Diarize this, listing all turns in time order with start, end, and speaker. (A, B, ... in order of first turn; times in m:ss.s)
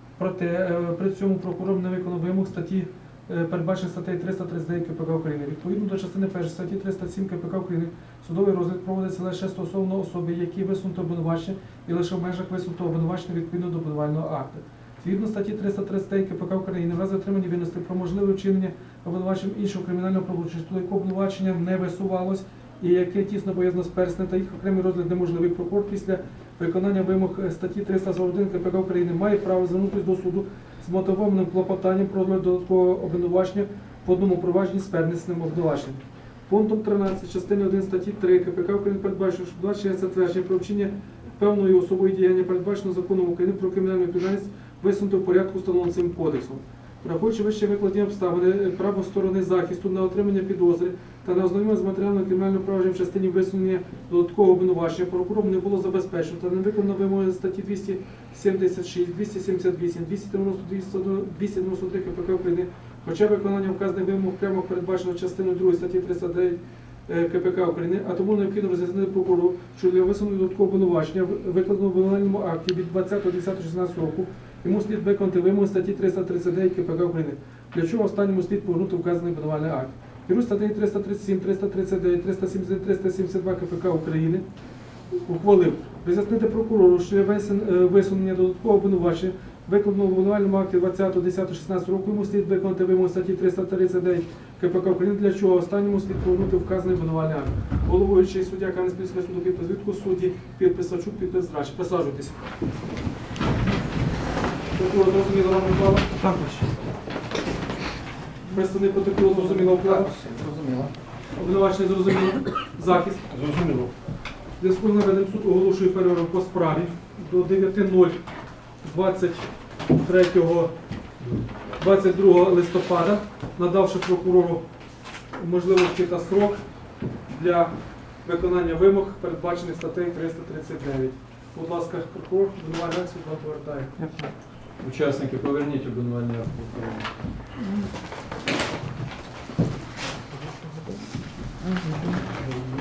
0:00.2-1:24.4 A
1:25.2-1:42.4 A
1:44.7-1:46.2 A
1:46.2-1:46.7 B
1:48.5-1:50.2 A
1:49.4-1:50.9 B
1:51.3-1:53.3 A
1:53.5-1:53.9 C
1:54.6-1:58.2 A
1:58.8-2:00.7 A
2:01.8-2:04.6 A
2:05.3-2:06.6 A
2:07.3-2:14.0 A
2:14.8-2:17.2 C
2:21.8-2:22.1 B